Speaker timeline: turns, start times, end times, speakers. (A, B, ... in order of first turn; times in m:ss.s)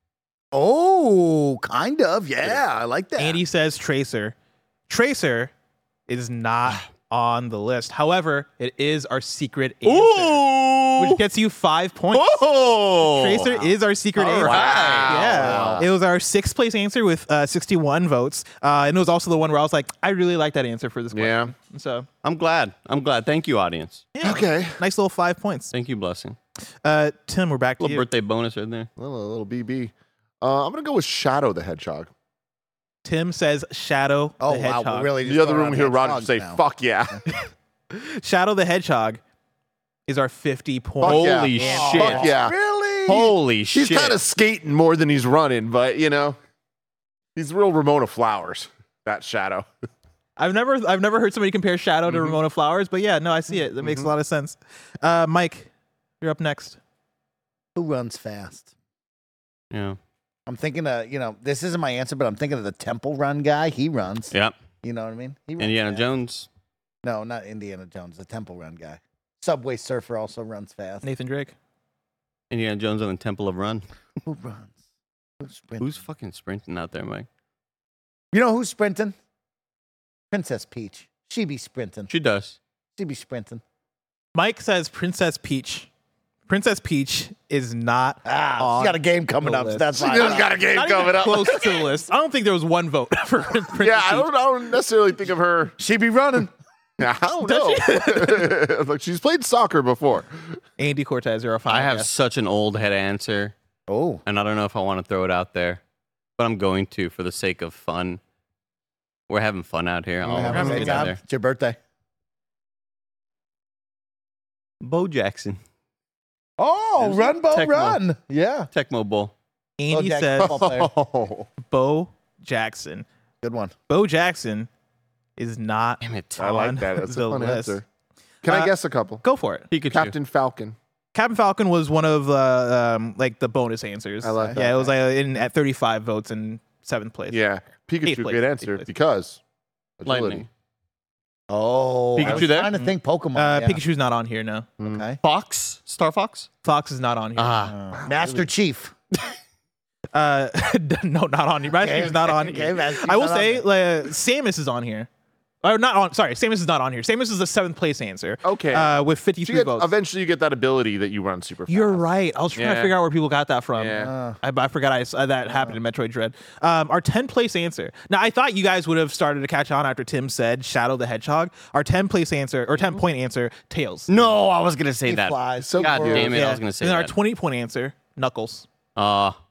0:00.5-0:03.4 A
0:03.2-0:04.4 B
0:04.9-0:05.5 B
0:06.1-0:10.4 B
0:09.8-0:11.2 C
0:11.0-0:12.4 B
0:12.1-0:13.5 C
0:13.0-0:22.1 B
0:14.2-0:15.8 C
0:14.4-0:15.9 D
0:21.1-0:21.5 D
0:22.2-0:24.1 C
0:24.2-0:25.7 B
0:24.2-0:24.8 D
0:25.7-0:26.4 C
0:26.8-0:28.0 B
0:27.8-0:28.9 C
0:29.0-0:32.1 D
0:33.0-0:35.1 B
0:34.4-0:36.6 A
0:35.2-0:37.2 D
0:37.9-0:39.2 B
0:40.1-0:42.2 B
0:41.0-0:42.6 D
0:41.0-0:42.3 C
0:41.6-0:43.3 A
0:43.1-0:44.2 C
0:43.1-0:46.4 D
0:47.4-0:49.7 D
0:50.4-0:55.7 B
0:53.8-0:54.1 D
0:56.2-0:56.8 B
0:57.8-0:58.7 A
0:59.7-1:00.0 C
1:00.5-1:06.0 A
1:05.6-1:06.5 C
1:07.0-1:11.0 A
1:11.0-1:11.6 B
1:12.5-1:13.8 C
1:14.2-1:14.8 A
1:15.4-1:16.0 A
1:15.8-1:17.3 C
1:18.3-1:19.2 A
1:20.3-1:22.1 A
1:22.1-1:22.6 C
1:23.0-1:23.6 A
1:24.4-1:25.9 B
1:26.5-1:34.3 B
1:28.2-1:30.6 A
1:30.0-1:31.8 D
1:33.8-1:35.8 D
1:35.8-1:36.5 A
1:37.0-1:40.6 D
1:37.4-1:38.5 B
1:40.8-1:42.1 B
1:41.7-1:43.5 C
1:43.9-1:44.2 A
1:44.3-1:45.8 C
1:46.4-1:48.2 C
1:49.3-1:51.2 C
1:50.2-1:51.0 D
1:50.3-1:51.8 A
1:50.5-1:51.0 B
1:54.8-1:55.6 C
1:56.6-1:58.7 A
1:57.2-1:58.0 C
1:58.7-1:59.3 C
1:59.8-2:00.7 B
1:59.9-2:00.9 A
2:00.4-2:01.5 D
2:01.6-2:03.1 B
2:03.4-2:03.7 A
2:03.9-2:04.7 B
2:05.4-2:07.8 B
2:06.0-2:06.4 C
2:06.4-2:07.8 D
2:08.4-2:09.2 D
2:08.5-2:08.7 B
2:09.2-2:09.7 B
2:09.7-2:10.2 C
2:09.9-2:10.8 D
2:11.1-2:17.4 B
2:14.2-2:14.9 D
2:17.3-2:19.4 D
2:18.0-2:18.9 B
2:20.0-2:20.5 D
2:20.1-2:20.5 C
2:21.5-2:23.8 A
2:22.2-2:22.7 C
2:22.7-2:24.7 B
2:24.8-2:25.2 A
2:25.2-2:26.5 C
2:26.6-2:27.7 B
2:27.4-2:27.8 C
2:27.7-2:28.9 A
2:27.9-2:28.4 D
2:30.1-2:35.1 B
2:31.7-2:33.6 A
2:35.6-2:39.9 B
2:38.4-2:42.9 D
2:41.7-2:54.1 B
2:43.8-2:44.1 D
2:44.0-2:44.4 A
2:54.1-2:57.1 C
2:55.0-2:56.4 A
2:55.6-2:56.4 D
2:56.3-2:58.7 B
2:59.0-2:59.4 C